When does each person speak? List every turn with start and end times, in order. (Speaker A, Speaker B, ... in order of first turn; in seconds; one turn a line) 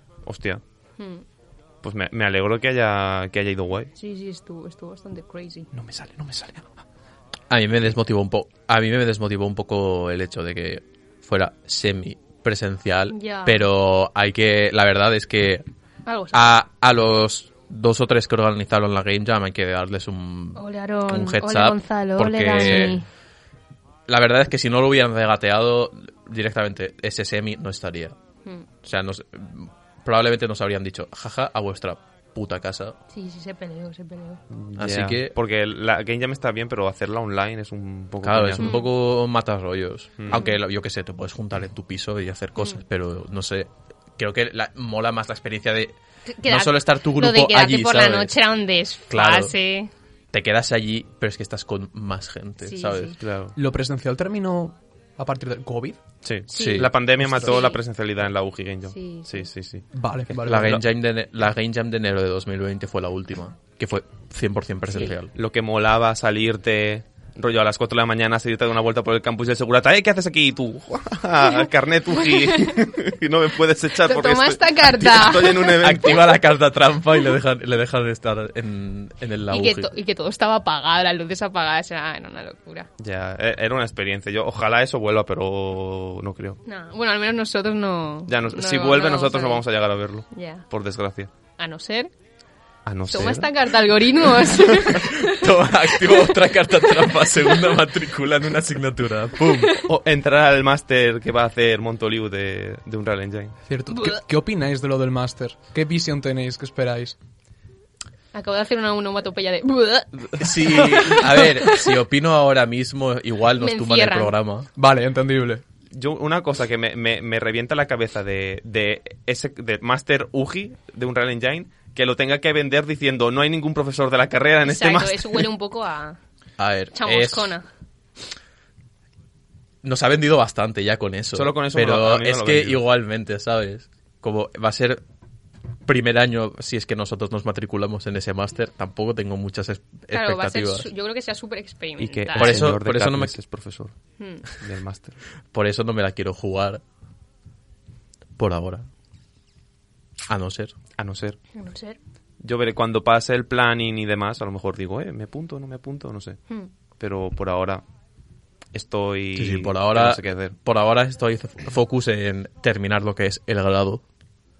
Speaker A: 0.2-0.6
Speaker B: 1.0-1.2
Speaker A: 1.8-3.9
Speaker B: 4.0-5.7
Speaker A: 5.7-6.7
Speaker C: 7.5-15.6
Speaker B: 13.1-13.6
Speaker B: 16.1-16.5
Speaker C: 16.3-23.0
Speaker B: 20.6-23.1
Speaker C: 24.1-28.1
Speaker C: 28.8-33.0
Speaker B: 33.1-34.4
Speaker A: 34.5-38.7
Speaker C: 34.8-35.3
Speaker C: 38.2-48.3
Speaker B: 38.6-38.9
Speaker A: 40.2-40.4
Speaker B: 46.2-49.9
Speaker C: 49.1-49.5
Speaker C: 50.3-53.1
Speaker B: 52.6-53.2
Speaker A: 53.2-53.5
Speaker D: 53.5-56.0
Speaker A: 56.2-60.8
Speaker C: 56.5-56.9
Speaker B: 56.5-57.8
Speaker D: 57.2-57.5
Speaker B: 58.9-59.5
Speaker D: 59.9-60.8
Speaker C: 60.4-65.3
Speaker A: 65.3-76.4
Speaker B: 72.2-72.8
Speaker B: 74.0-75.8
Speaker C: 75.7-79.9
Speaker B: 79.5-82.9
Speaker A: 83.0-86.6
Speaker B: 86.7-89.6
Speaker A: 88.3-91.3
Speaker B: 90.3-90.6
Speaker B: 91.6-92.1
Speaker A: 92.8-93.5
Speaker B: 93.1-95.5
Speaker C: 94.8-99.8
Speaker A: 99.8-103.6
Speaker D: 103.7-107.2
Speaker B: 103.9-104.2
Speaker B: 108.3-111.8
Speaker C: 110.4-114.7
Speaker B: 113.6-114.3
Speaker D: 114.8-115.6
Speaker A: 115.9-125.5
Speaker B: 124.6-126.2
Speaker C: 126.6-127.5
Speaker B: 126.9-127.7
Speaker C: 129.8-135.0
Speaker A: 131.3-132.8
Speaker C: 135.8-140.9
Speaker B: 140.1-142.6
Speaker A: 142.0-143.9
Speaker C: 142.4-143.3
Speaker B: 144.2-144.4
Speaker A: 144.5-145.2
Speaker C: 145.5-146.8
Speaker C: 148.4-148.8
Speaker C: 150.3-150.7
Speaker A: 151.0-151.4
Speaker B: 151.5-152.0
Speaker A: 152.4-156.4
Speaker A: 157.0-157.8
Speaker A: 158.7-160.5
Speaker C: 159.3-164.0